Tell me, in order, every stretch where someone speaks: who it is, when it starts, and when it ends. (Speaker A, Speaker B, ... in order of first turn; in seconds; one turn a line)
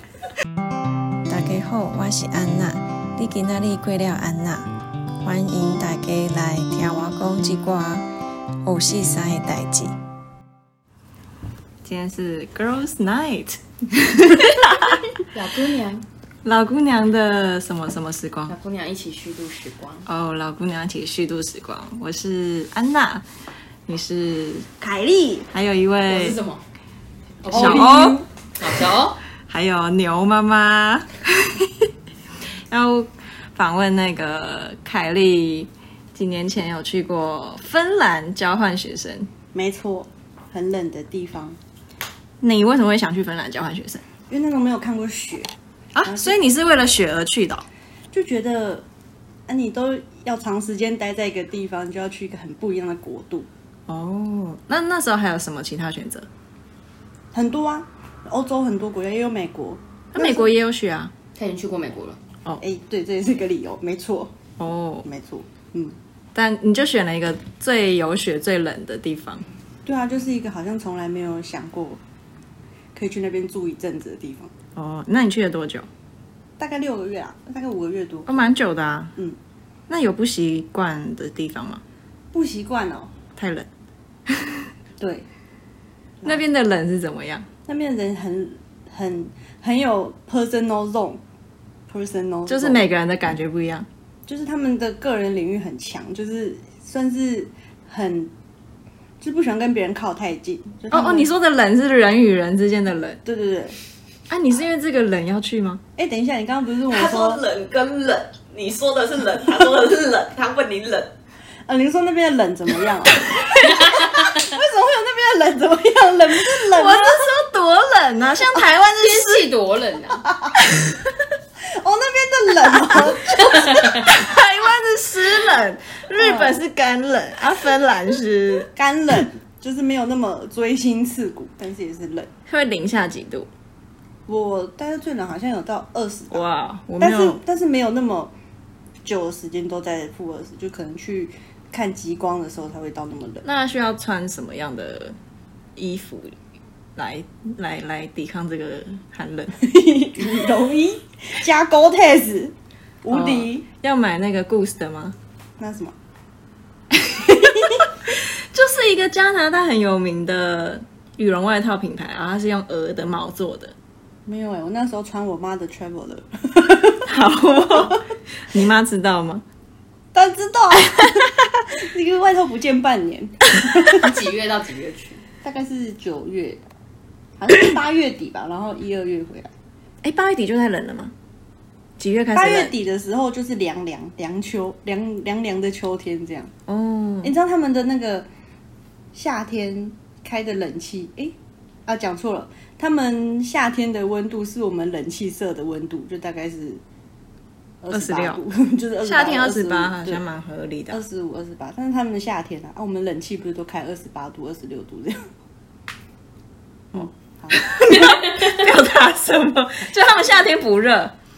Speaker A: 1.3-8.1
Speaker A: 8.6-10.0
Speaker A: 11.8-15.1
Speaker B: 15.3-16.1
Speaker A: 16.4-18.6
Speaker B: 18.5-20.1
Speaker A: 20.1-23.3
Speaker A: 23.9-24.7
Speaker C: 24.8-25.5
Speaker A: 25.5-26.4
Speaker B: 26.1-26.6
Speaker B: 27.4-29.2
Speaker C: 27.5-28.0
Speaker A: 27.5-28.2
Speaker A: 29.5-31.9
Speaker A: 32.7-39.3
Speaker C: 39.5-41.6
Speaker A: 42.4-44.0
Speaker C: 44.3-45.5
Speaker A: 45.9-47.7
Speaker C: 46.0-46.4
Speaker C: 48.1-48.9
Speaker C: 49.5-53.5
Speaker A: 53.9-56.3
Speaker C: 57.3-60.5
Speaker A: 60.1-61.1
Speaker B: 61.4-62.2
Speaker C: 62.6-64.3
Speaker A: 64.6-65.1
Speaker C: 65.0-66.0
Speaker A: 66.3-69.5
Speaker C: 69.9-72.0
Speaker C: 73.0-74.5
Speaker A: 74.8-75.9
Speaker C: 76.6-78.4
Speaker A: 78.3-79.1
Speaker A: 79.9-81.8
Speaker C: 82.3-83.1
Speaker A: 83.3-83.7
Speaker A: 84.3-84.7
Speaker C: 85.0-85.3
Speaker A: 86.2-87.5
Speaker C: 87.7-91.2
Speaker C: 91.9-92.9
Speaker A: 92.5-93.9
Speaker C: 94.3-98.3
Speaker C: 99.2-101.3
Speaker A: 100.9-103.2
Speaker C: 103.2-103.8
Speaker A: 104.3-105.8
Speaker C: 106.0-107.4
Speaker D: 106.9-111.1
Speaker C: 111.7-117.3
Speaker B: 113.7-114.2
Speaker A: 116.4-119.5
Speaker B: 119.0-120.2
Speaker C: 120.2-120.6
Speaker A: 120.6-121.0
Speaker C: 121.6-123.7
Speaker A: 122.5-128.7
Speaker B: 123.5-124.1
Speaker C: 126.2-126.6
Speaker C: 128.7-132.3
Speaker A: 132.5-133.5
Speaker C: 134.3-136.4
Speaker A: 136.3-137.4
Speaker C: 137.0-138.3
Speaker C: 139.1-143.4
Speaker A: 143.4-145.2
Speaker A: 145.8-146.4
Speaker A: 147.0-149.5
Speaker C: 149.6-153.7
Speaker A: 153.1-155.2
Speaker C: 155.6-155.9
Speaker A: 156.9-163.7
Speaker C: 157.2-157.9
Speaker C: 164.3-167.1
Speaker A: 167.1-169.4
Speaker C: 170.1-174.1
Speaker B: 173.9-175.2
Speaker C: 175.4-176.6
Speaker C: 177.4-179.5
Speaker A: 180.0-181.1
Speaker A: 182.0-182.7
Speaker C: 182.3-186.5
Speaker A: 186.7-187.3
Speaker C: 187.2-188.3
Speaker C: 189.1-191.3
Speaker C: 191.9-196.8
Speaker C: 197.8-200.2
Speaker A: 197.9-198.4
Speaker A: 199.0-201.0
Speaker C: 200.9-205.3
Speaker C: 206.9-207.7
Speaker A: 206.9-211.1
Speaker B: 207.9-208.6